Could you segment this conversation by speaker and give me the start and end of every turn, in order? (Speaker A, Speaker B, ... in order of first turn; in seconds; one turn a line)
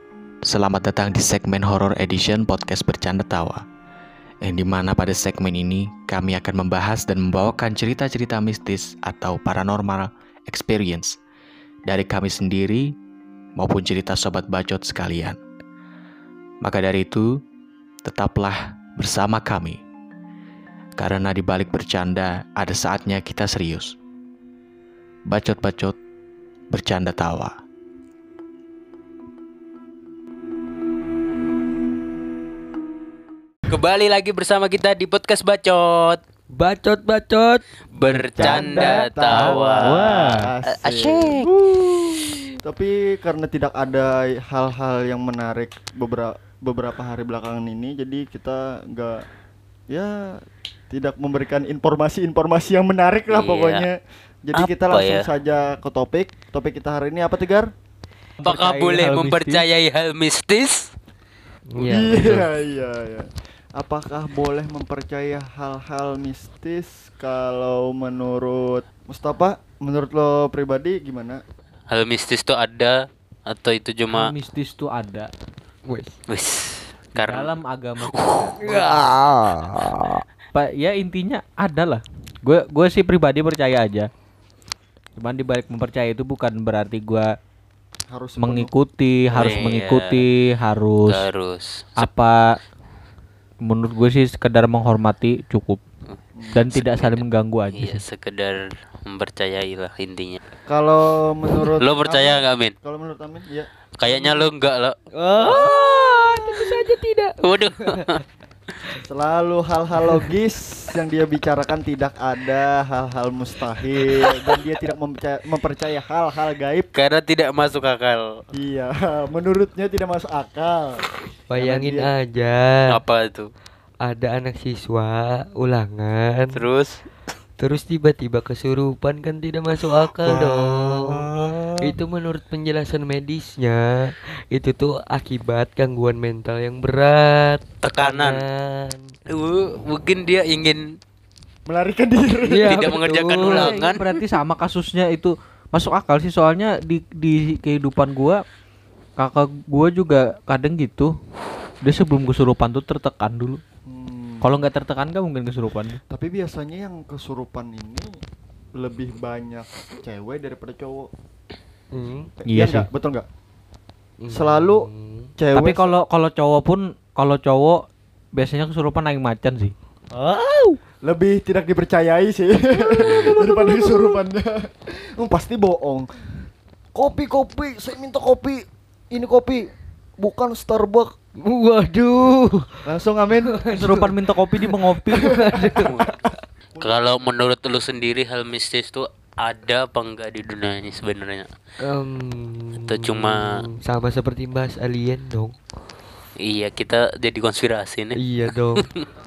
Speaker A: 0.5-3.6
Speaker A: 4.4-11.2
Speaker A: 11.9-13.0
Speaker A: 13.6-15.4
Speaker A: 16.6-17.4
Speaker A: 18.0-19.8
Speaker A: 21.0-24.0
Speaker A: 25.3-26.0
Speaker A: 26.7-27.5
Speaker B: 33.7-36.2
Speaker C: 36.5-37.6
Speaker B: 37.9-41.5
Speaker D: 38.1-38.6
Speaker E: 38.4-49.3
Speaker C: 38.5-39.0
Speaker D: 39.3-40.5
Speaker E: 49.9-57.7
Speaker B: 53.3-53.9
Speaker B: 54.5-55.3
Speaker D: 58.4-59.6
Speaker B: 58.4-60.9
Speaker C: 61.7-62.5
Speaker E: 61.9-71.4
Speaker B: 71.9-74.3
Speaker D: 74.1-75.3
Speaker C: 75.9-76.2
Speaker B: 76.3-77.5
Speaker D: 77.2-79.1
Speaker B: 78.0-78.5
Speaker C: 78.6-80.2
Speaker D: 79.7-84.1
Speaker D: 85.2-87.3
Speaker E: 88.1-88.7
Speaker D: 88.4-91.3
Speaker E: 89.3-89.8
Speaker B: 89.3-90.2
Speaker B: 91.1-92.1
Speaker D: 92.0-92.6
Speaker D: 93.6-95.8
Speaker E: 96.4-96.8
Speaker D: 96.5-98.0
Speaker B: 96.7-97.2
Speaker B: 97.8-100.4
Speaker E: 100.7-104.4
Speaker B: 101.8-102.7
Speaker B: 104.0-105.7
Speaker C: 105.1-108.1
Speaker E: 105.4-106.3
Speaker B: 107.4-108.2
Speaker E: 109.0-116.9
Speaker B: 117.0-118.2
Speaker E: 118.5-121.0
Speaker C: 121.5-122.9
Speaker E: 121.5-122.1
Speaker B: 122.9-123.5
Speaker C: 124.0-126.6
Speaker B: 126.5-127.0
Speaker C: 127.6-131.3
Speaker D: 130.2-131.7
Speaker C: 131.8-139.1
Speaker B: 137.8-138.4
Speaker B: 139.3-141.0
Speaker E: 141.7-143.0
Speaker C: 142.4-143.7
Speaker B: 142.6-144.1
Speaker D: 143.4-148.4
Speaker D: 149.2-151.1
Speaker D: 151.8-153.6
Speaker E: 153.9-154.5
Speaker D: 154.4-156.0
Speaker E: 156.1-158.2
Speaker E: 158.8-161.1
Speaker C: 161.9-162.3
Speaker E: 162.4-163.3
Speaker D: 162.5-162.9
Speaker C: 164.2-165.3
Speaker E: 164.3-165.9
Speaker D: 165.5-169.7
Speaker E: 171.0-176.1
Speaker C: 173.1-174.1
Speaker E: 176.9-181.2
Speaker C: 181.4-182.9
Speaker E: 182.9-183.7
Speaker C: 183.5-186.1
Speaker D: 183.7-185.4
Speaker E: 185.1-186.2
Speaker B: 186.8-191.5
Speaker C: 191.8-195.6
Speaker B: 192.8-193.6
Speaker B: 196.4-198.2
Speaker C: 198.2-198.9
Speaker B: 198.8-199.1